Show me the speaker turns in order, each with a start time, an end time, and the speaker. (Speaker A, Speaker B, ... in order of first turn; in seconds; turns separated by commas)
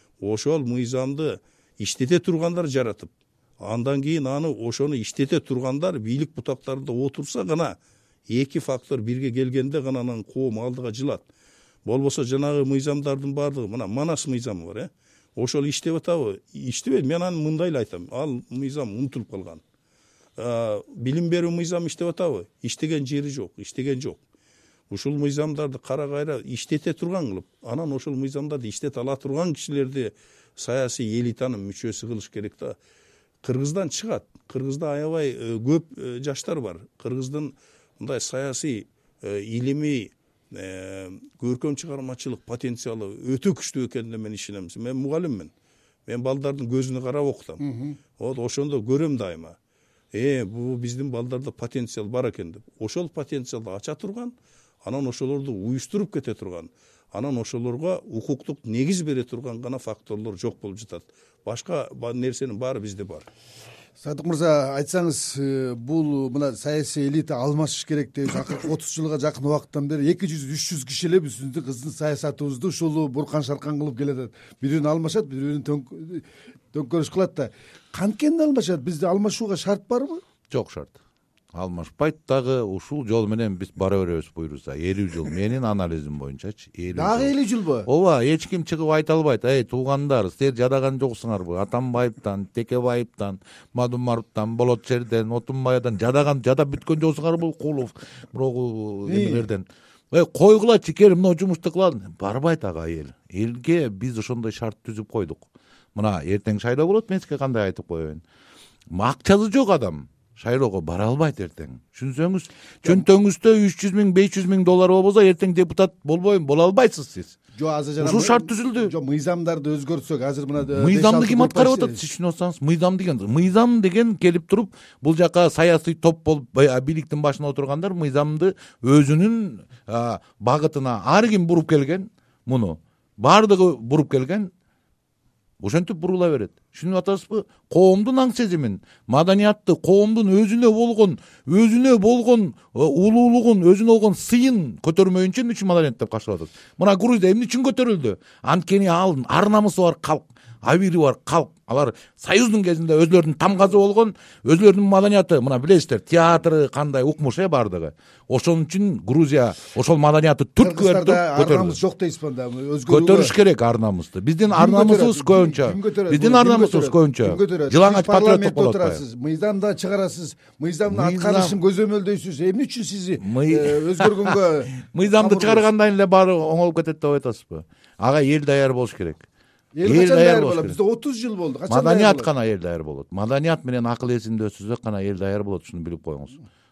Speaker A: 0.2-7.8, Speaker A: 8.3-11.2, Speaker A: 11.8-19.6, Speaker A: 20.4-24.2, Speaker A: 24.9-32.8, Speaker A: 33.4-45.5, Speaker A: 46.1-47.6, Speaker B: 47.6-48.0, Speaker A: 48.2-49.6, Speaker A: 50.1-63.3, Speaker B: 64.0-80.2, Speaker C: 80.5-81.0, Speaker C: 81.5-87.3, Speaker B: 86.9-87.9, Speaker C: 87.9-108.2, Speaker B: 99.1-99.5, Speaker C: 108.9-117.4, Speaker B: 117.5-122.0, Speaker C: 118.0-118.9, Speaker C: 120.7-134.5, Speaker C: 135.6-161.8, Speaker B: 160.6-163.3, Speaker C: 162.9-169.0, Speaker B: 164.5-175.7, Speaker C: 170.9-171.6, Speaker C: 173.2-179.2, Speaker B: 179.7-182.3, Speaker C: 179.8-180.8, Speaker C: 181.7-186.4